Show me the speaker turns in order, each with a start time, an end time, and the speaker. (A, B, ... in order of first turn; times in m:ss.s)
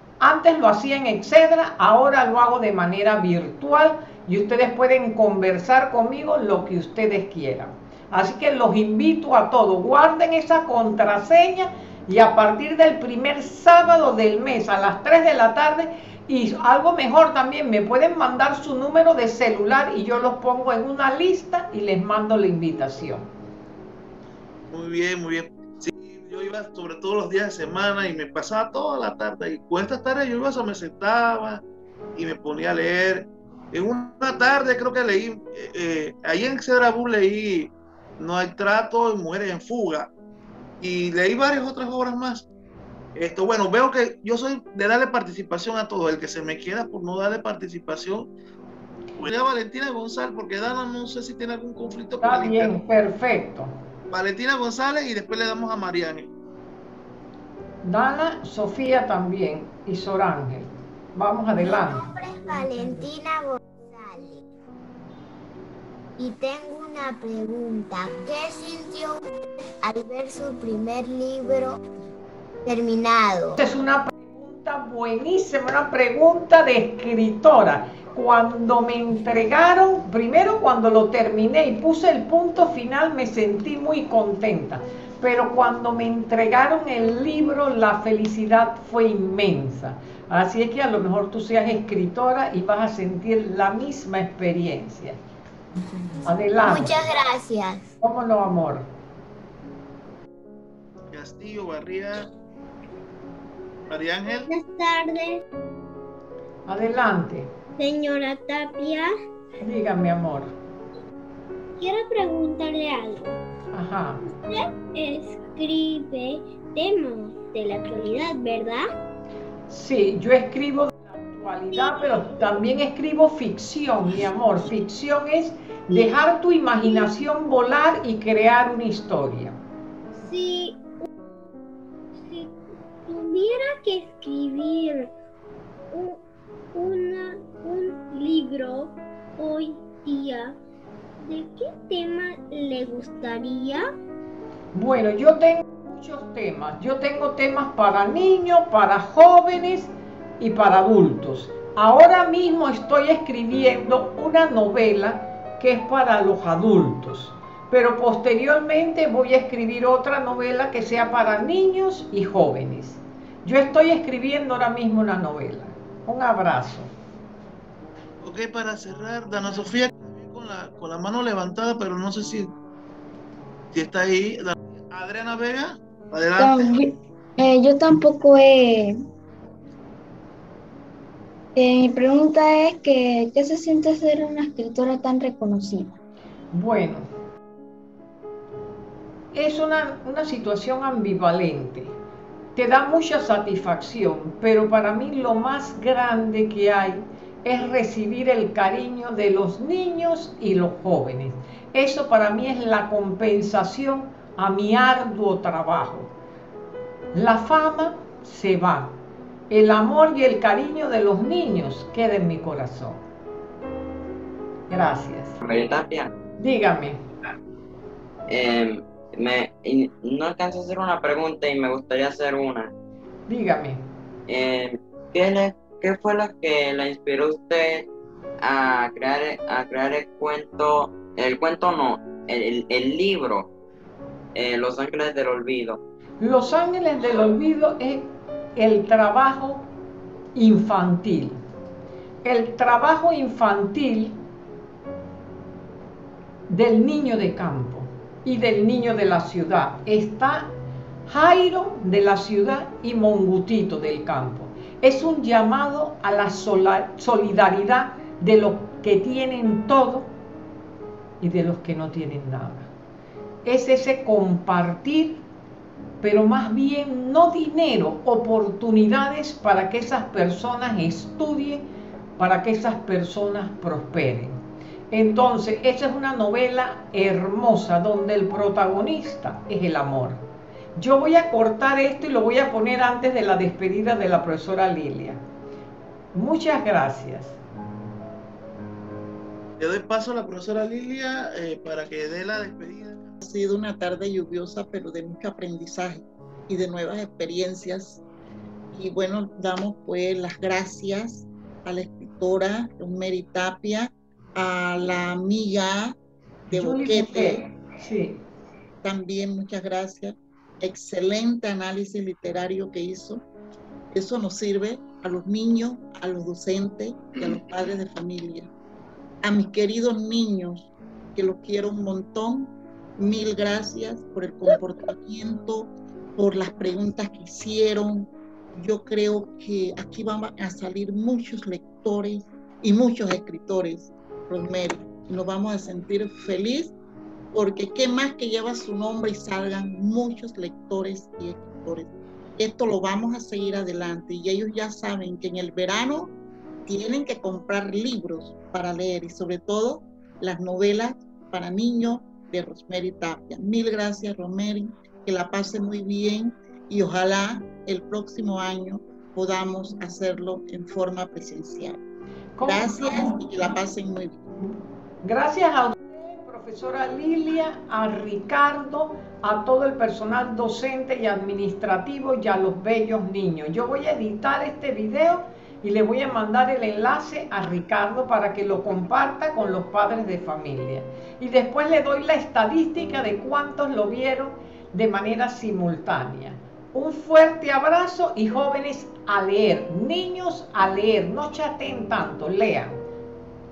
0:00.2-0:23.3 A
0:24.7-0:31.6 B
0:32.2-0:40.1 B
0:40.8-0:42.5 B
0:43.2-0:48.3 B
0:49.2-0:52.8 B
0:52.2-0:53.7 A
0:54.1-0:56.3 B
0:57.8-1:02.0 A
1:01.6-1:04.4 C
1:06.2-1:09.2 C
1:09.8-1:11.8 C
1:12.7-1:13.6 C
1:13.6-1:35.2 A
1:36.3-1:37.1 A
1:37.2-1:37.8 D
1:38.0-1:38.9 A
1:41.1-1:42.3 B
1:43.9-1:44.5 B
1:44.5-1:45.4 D
1:46.7-1:47.5 A
1:47.8-1:49.1 D
1:49.6-1:50.5 A
1:51.8-1:53.4 D
1:53.7-1:54.2 A
1:54.2-1:58.8 D
1:59.7-2:09.6 A
2:10.2-2:11.1 D
2:12.2-2:15.1 D
2:15.9-2:16.2 D
2:16.7-2:20.6 D
2:21.2-2:23.8 D
2:24.7-2:46.9 A
2:48.2-2:52.5 B
2:53.7-2:56.7 B
2:56.4-2:59.0 E
3:01.6-3:06.0 E
3:06.5-3:07.1 A
3:09.3-3:11.9 A
3:12.6-3:26.1 A
3:27.1-3:29.0 A
3:29.5-3:33.0 A
3:34.7-3:35.4 A
3:35.4-3:36.1 F
3:36.4-3:37.0 A
3:38.3-3:42.7 F
3:43.3-3:43.8 A
3:44.3-3:47.9 F
3:48.4-3:53.5 F
3:54.3-3:55.8 F
3:56.2-3:59.7 A
4:00.4-4:01.4 A
4:02.2-4:04.2 A
4:06.5-4:10.5 A
4:11.1-4:20.1 A
4:21.2-4:22.7 A
4:23.4-4:25.2 A
4:26.0-4:31.7 A
4:32.2-4:40.2 A
4:40.8-4:45.2 A
4:46.1-4:47.4 A
4:49.6-4:53.2 B
4:53.2-4:58.0 G
4:58.7-5:06.0 G
5:06.5-5:07.5 G
5:06.5-5:08.2 A
5:08.8-5:13.2 G
5:13.9-5:18.5 G
5:19.2-5:36.7 G
5:37.3-5:46.1 G
5:46.7-6:01.8 G
6:02.4-6:03.2 A
6:02.4-6:04.2 G
6:05.0-6:32.8 A